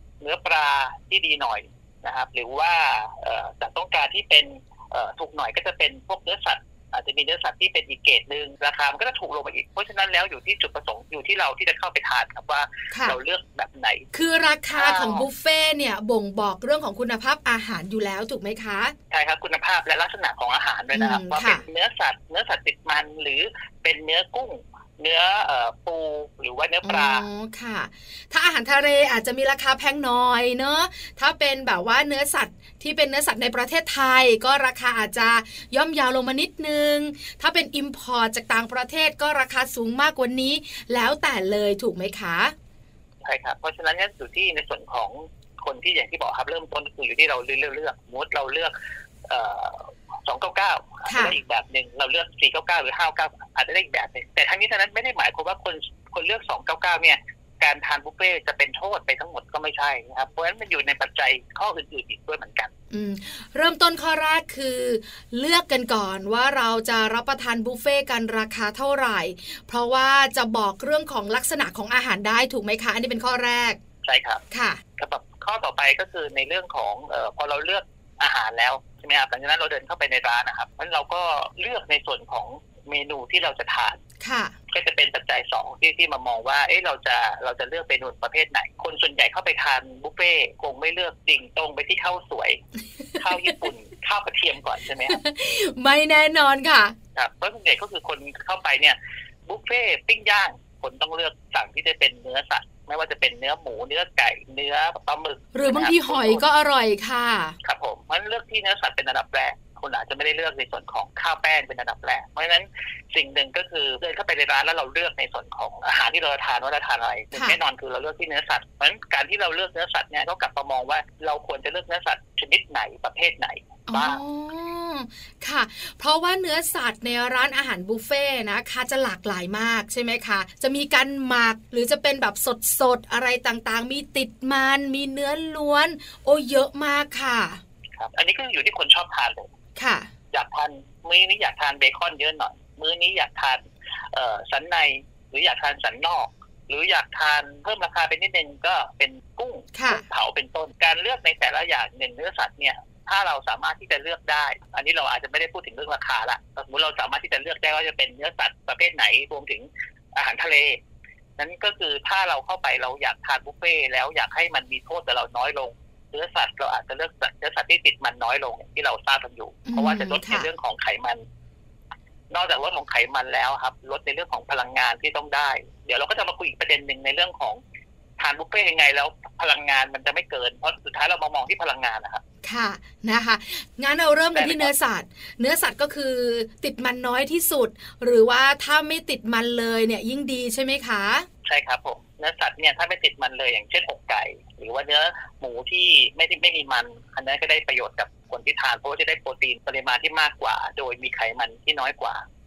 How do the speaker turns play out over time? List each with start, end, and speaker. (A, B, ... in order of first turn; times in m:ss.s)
0:00.2-0:14.1 A
0:12.9-0:13.2 B
0:14.1-0:18.9 B
0:14.7-0:15.2 A
0:19.1-0:27.2 A
0:20.9-0:21.6 B
0:26.8-0:42.5 B
0:43.2-0:48.7 A
0:49.3-1:02.7 A
0:51.0-0:51.4 B
1:02.9-1:13.8 B
1:14.0-1:14.4 A
1:14.5-1:14.8 B
1:15.0-1:24.0 A
1:24.2-1:24.5 B
1:24.7-1:32.6 A
1:33.2-1:35.2 A
1:35.1-1:36.9 B
1:37.2-1:39.0 A
1:39.5-1:46.4 A
1:45.5-1:47.6 B
1:47.6-2:04.2 A
2:03.9-2:17.6 B
2:18.0-2:19.5 A
2:19.8-2:20.1 B
2:20.3-2:40.8 A
2:29.7-2:30.0 B
2:41.4-2:51.2 A
2:49.7-2:50.5 B
2:52.3-2:57.6 A
2:58.2-3:02.2 A
3:02.4-3:11.3 B
3:04.3-3:04.7 A
3:11.4-3:22.2 A